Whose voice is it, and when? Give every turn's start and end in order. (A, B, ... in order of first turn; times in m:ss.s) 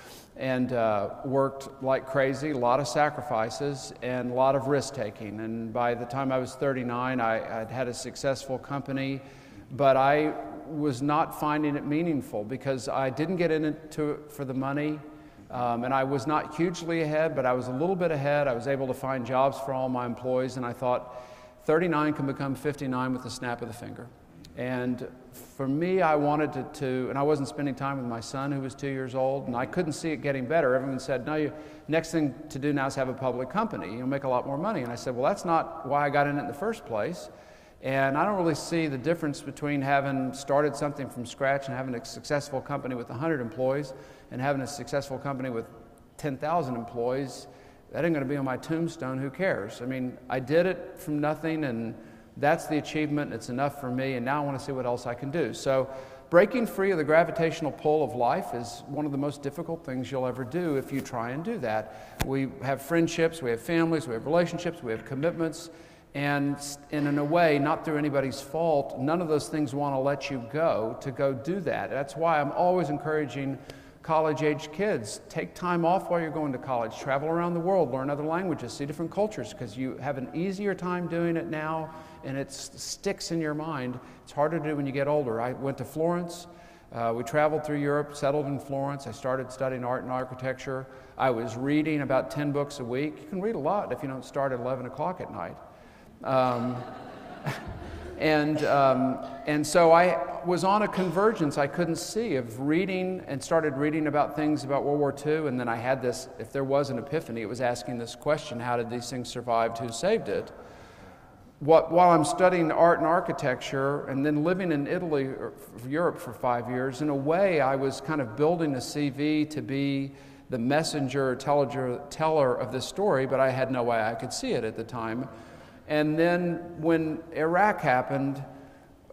0:00.4-0:37.3 A
0:37.8-1:35.6 A
1:36.2-1:36.9 A
1:38.2-1:50.5 A
1:51.6-2:05.3 A
2:05.9-2:08.5 A